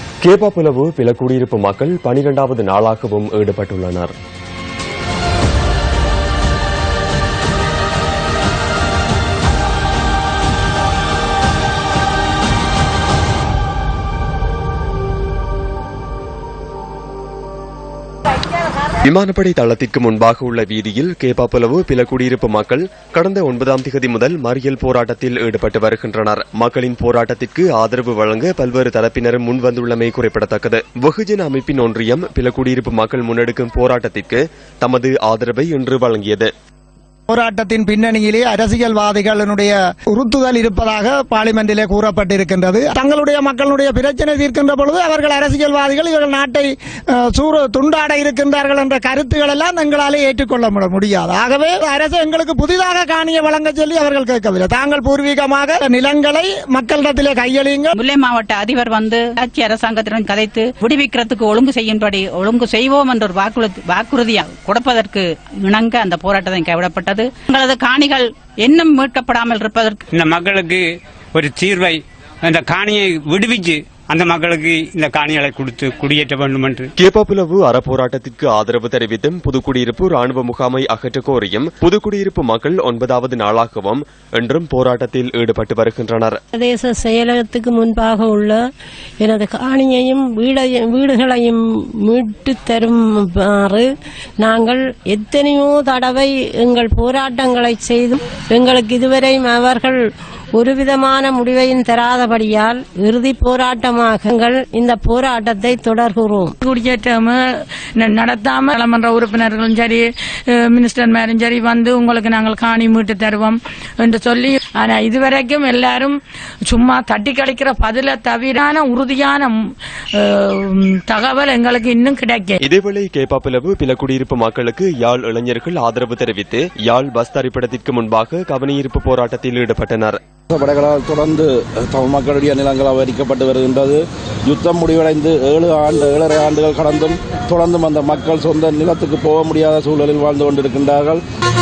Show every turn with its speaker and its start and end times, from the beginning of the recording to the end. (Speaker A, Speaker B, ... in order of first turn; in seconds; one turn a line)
Speaker A: 0.2-4.1
Speaker A: 19.0-36.5
Speaker B: 37.3-46.7
Speaker B: 47.3-57.9
Speaker C: 57.9-70.0
Speaker D: 70.1-76.9
Speaker A: 77.0-86.4
Speaker E: 86.5-88.6
Speaker E: 89.2-100.0
Speaker E: 100.5-106.5
Speaker F: 106.6-107.4
Speaker F: 108.0-116.2
Speaker F: 116.7-119.5
Speaker F: 120.2-122.6
Speaker A: 122.6-130.2
Speaker G: 130.5-141.2